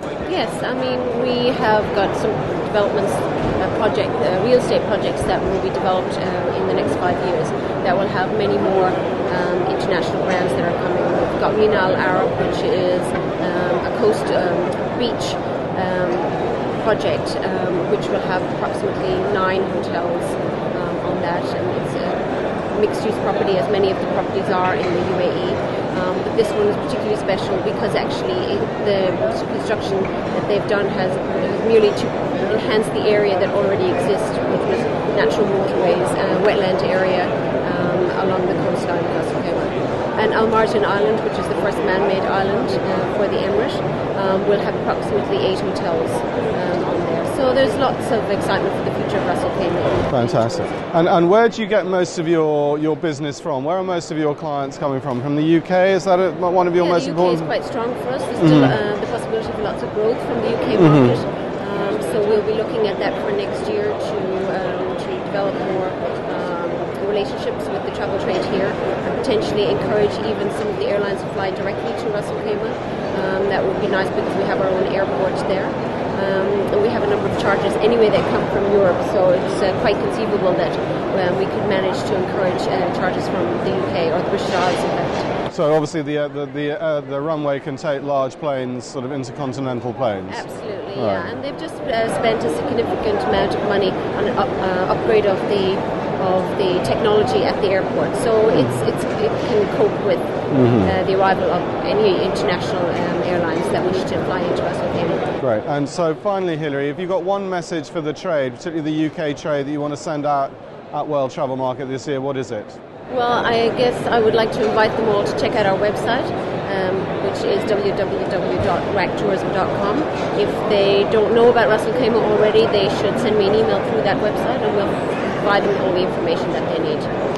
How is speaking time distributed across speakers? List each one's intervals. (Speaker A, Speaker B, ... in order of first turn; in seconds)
Speaker A: 0.3-50.8, 56.8-85.3, 90.3-105.3, 113.1-127.2
Speaker B: 50.1-57.5, 58.4-58.8, 60.8-61.2, 85.5-91.4, 100.5-100.9, 105.4-112.8